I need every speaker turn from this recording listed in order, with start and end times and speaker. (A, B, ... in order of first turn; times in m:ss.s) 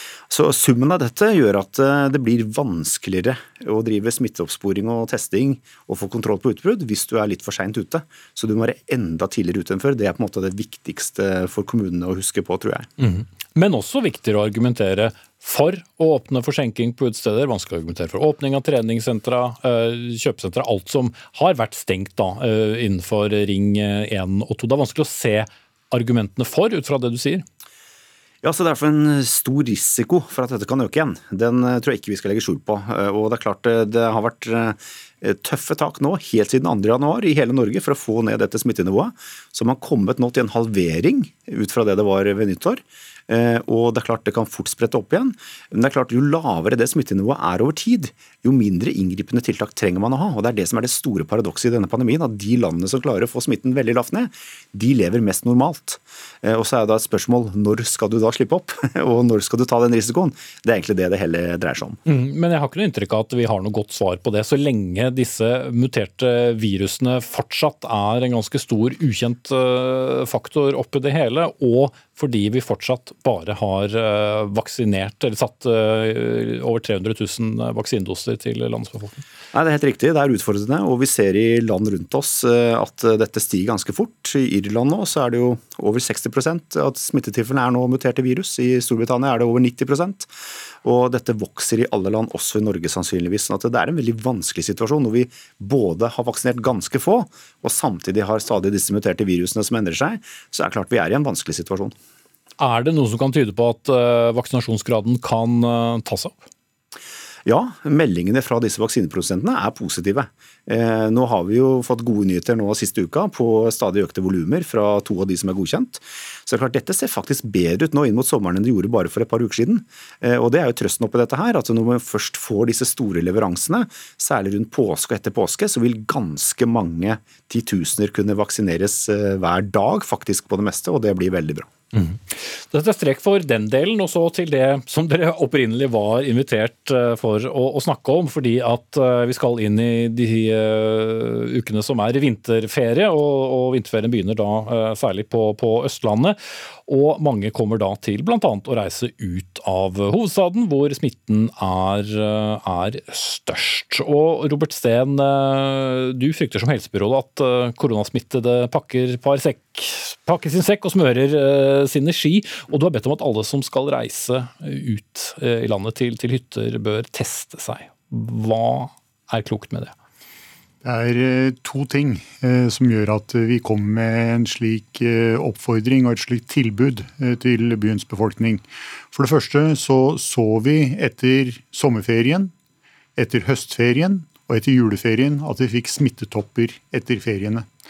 0:00.3-0:12.9 A
0:13.0-0:27.4 B
0:28.4-1:02.0 A
1:02.1-1:19.2 B
1:19.5-1:30.3 A
1:30.8-1:41.9 A
1:42.6-1:46.4 B
1:47.4-2:11.7 A
2:11.9-2:49.9 B
2:50.8-3:02.5 C
3:03.2-3:07.7 C